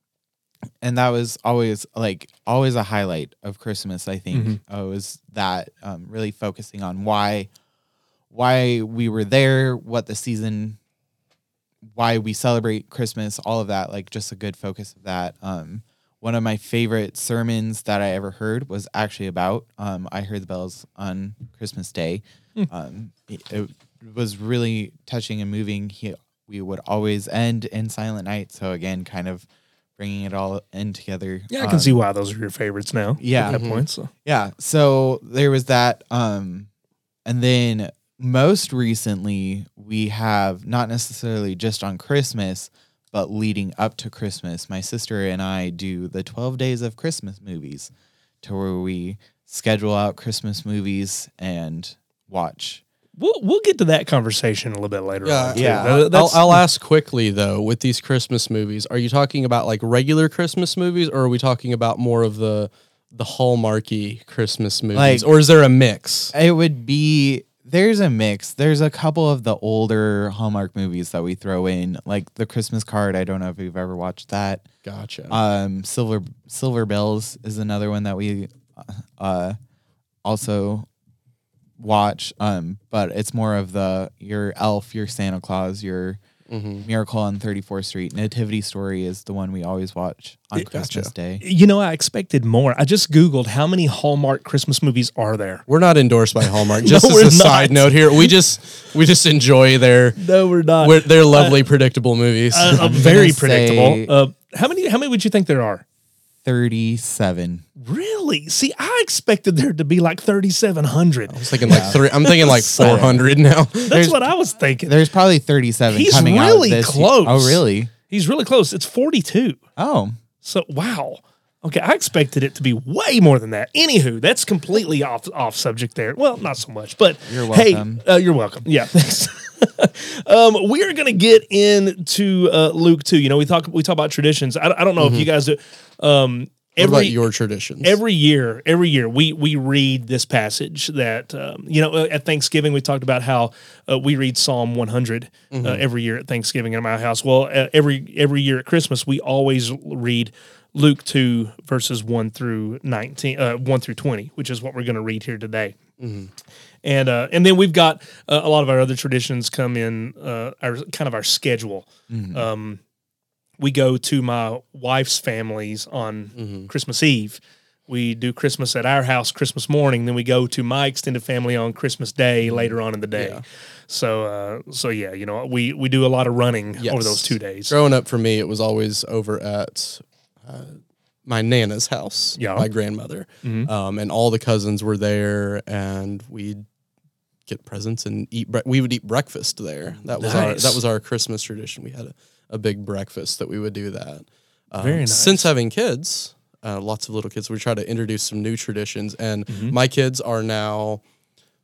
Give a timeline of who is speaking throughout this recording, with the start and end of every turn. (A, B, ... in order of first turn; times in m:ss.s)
0:00.8-0:07.5 A
0:04.3-0:04.6 B
0:08.3-0:10.8 A
0:11.9-0:32.0 A
0:31.5-0:34.1 B
0:33.2-0:33.6 A
0:33.5-0:33.8 C
0:34.2-0:36.7 A
0:37.2-0:47.9 A
0:48.4-0:52.8 A
0:53.2-0:56.6 B
0:55.2-1:06.3 C
0:55.5-0:55.9 A
1:04.9-1:05.2 A
1:06.3-1:14.6 A
1:14.8-1:15.4 C
1:15.3-1:19.6 A
1:20.2-1:20.9 A
1:21.8-1:26.2 A
1:26.5-1:26.9 C
1:26.8-1:31.4 A
1:30.7-1:31.1 C
1:31.4-1:35.6 B
1:35.7-1:40.2 C
1:36.4-1:38.3 B
1:40.2-1:41.6 B
1:40.8-1:43.0 C
1:42.5-1:45.8 B
1:42.7-1:44.1 A
1:46.4-1:47.6 A
1:47.8-1:53.2 B
1:51.3-1:53.9 C
1:51.7-1:52.0 A
1:52.8-1:53.2 A
1:53.8-1:54.9 B
1:53.9-1:54.2 A
1:54.8-1:57.9 A
1:55.9-1:59.6 B
1:59.8-2:00.2 A
2:00.4-2:17.2 B
2:07.3-2:08.0 A
2:15.0-2:15.3 C
2:16.8-2:18.0 C
2:17.8-2:35.8 B
2:25.5-2:25.8 C
2:36.0-2:36.3 C
2:36.8-2:42.8 B
2:42.1-2:42.5 A
2:43.6-2:57.7 B
2:46.4-2:46.7 C
2:52.5-2:53.4 C
2:56.8-3:06.6 C
3:02.4-3:02.7 B
3:03.4-3:03.7 B
3:07.5-3:21.0 C
3:10.2-3:10.8 B
3:14.8-3:15.5 B
3:19.5-3:19.7 B